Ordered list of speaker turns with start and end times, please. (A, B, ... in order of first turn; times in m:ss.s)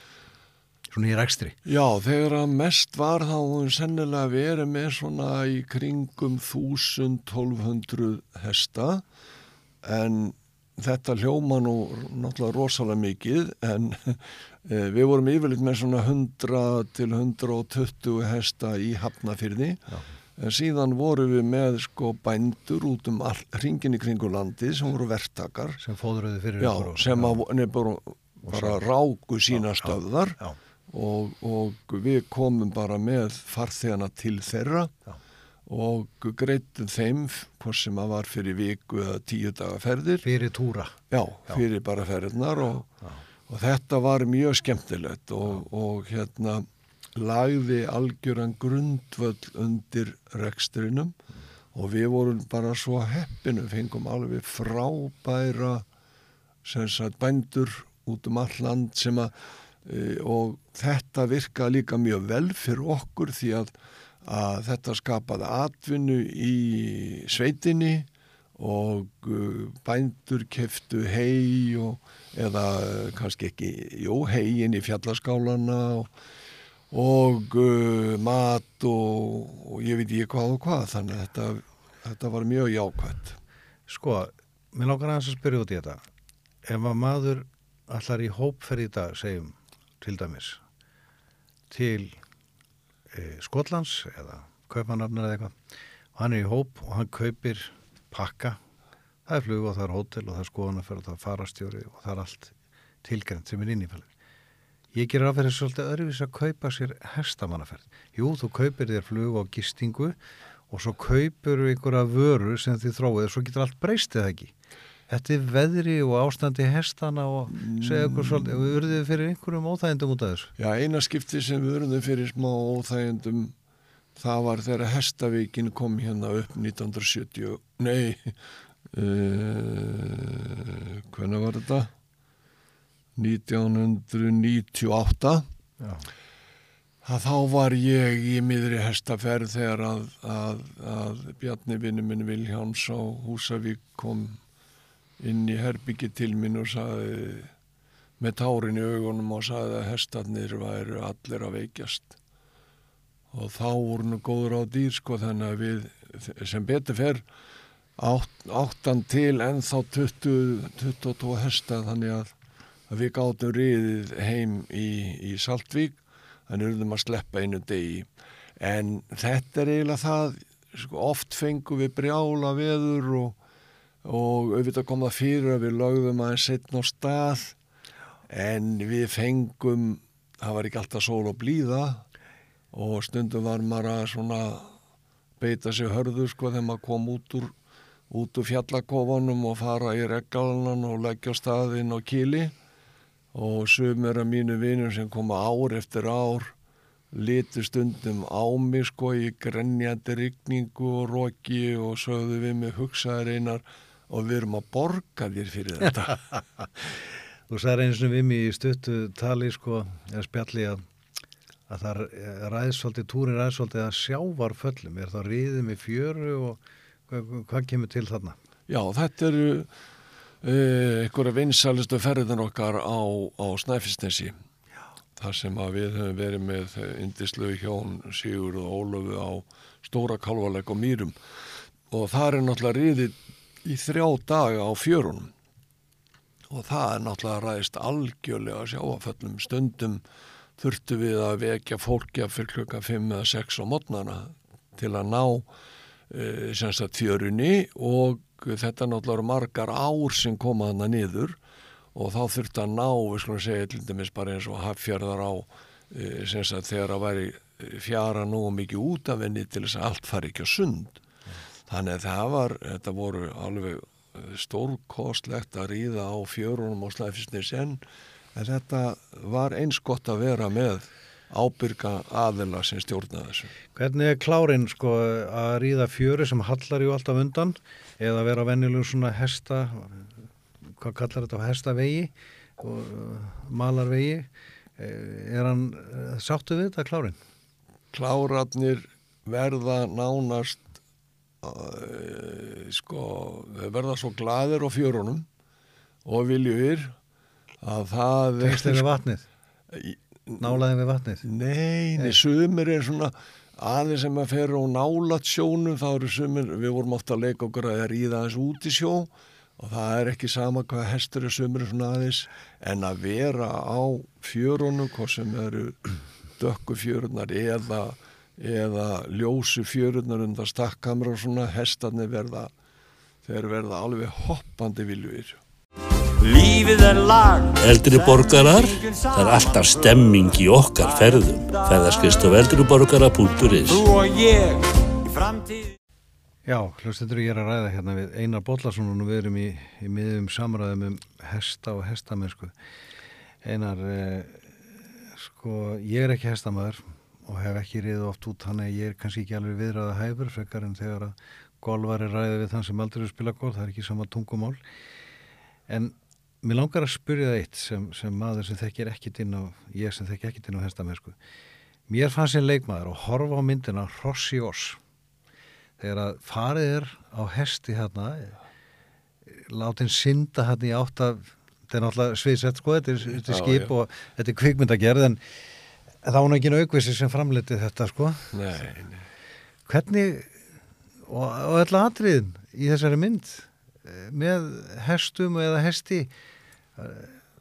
0:00.9-0:01.6 A
0:01.6-0:09.0 B
0:09.8-0:19.8 B
0:20.4-0:25.8 B
0:25.8-0:27.4 A
0:26.6-0:34.9 B
0:28.4-0:28.8 A
0:29.8-0:30.6 A
0:35.7-0:40.3 B
0:40.2-0:40.9 A
0:41.1-0:42.9 B
0:43.5-0:51.2 B
0:51.7-0:55.8 B
0:56.6-1:16.1 B
1:16.9-1:23.4 B
1:23.9-1:26.0 A
1:26.6-1:30.6 A
1:31.7-1:32.2 A
1:33.1-1:35.6 A
1:36.1-1:38.6 A
1:39.2-1:44.1 A
1:44.9-1:50.2 A
1:50.7-1:54.5 A
1:55.1-2:00.5 A
1:57.5-1:58.7 B
2:00.6-2:03.5 B
2:04.2-2:08.4 B
2:08.9-2:11.9 B
2:13.2-2:15.4 B
2:15.8-2:16.1 A
2:17.0-2:24.4 B
2:25.2-2:27.5 B
2:28.2-2:32.2 B
2:33.3-2:37.2 B
2:38.0-2:42.3 B
2:42.9-2:48.1 B
2:48.6-2:53.4 B
2:54.0-2:57.6 B
2:58.3-3:02.0 B
3:02.7-3:04.7 B
3:05.4-3:07.5 B
3:08.1-3:12.5 B
3:13.3-3:16.5 B
3:17.1-3:26.2 B
3:26.6-3:27.0 A
3:27.5-3:30.8 A
3:31.7-3:38.4 A
3:38.7-3:39.7 B
3:40.4-3:44.3 B
3:45.2-3:51.1 B
3:51.9-3:55.3 B
3:56.5-4:00.0 B
4:00.6-4:05.5 B
4:06.1-4:11.4 B
4:11.9-4:21.0 B
4:21.7-4:27.8 B
4:28.3-4:33.5 B
4:33.7-4:40.1 A
4:40.6-4:47.2 A
4:47.9-4:50.7 B
4:51.4-4:55.2 B
4:56.0-4:57.0 B
4:57.6-4:58.9 B
4:58.4-4:59.2 A
4:59.7-5:00.6 B
5:00.4-5:01.2 A
5:01.2-5:22.5 B
5:23.2-5:25.4 B
5:26.2-5:32.3 C
5:27.6-5:33.9 D
5:33.7-5:35.7 C
5:36.4-5:42.5 A
5:43.4-5:54.6 A
5:55.7-6:01.2 A
6:01.9-6:04.8 A
6:05.8-6:08.4 A
6:09.3-6:15.4 A
6:13.2-6:13.7 B
6:16.0-6:18.3 A
6:18.3-6:19.0 B
6:19.6-6:20.3 A
6:21.0-6:26.1 A
6:26.8-6:27.2 A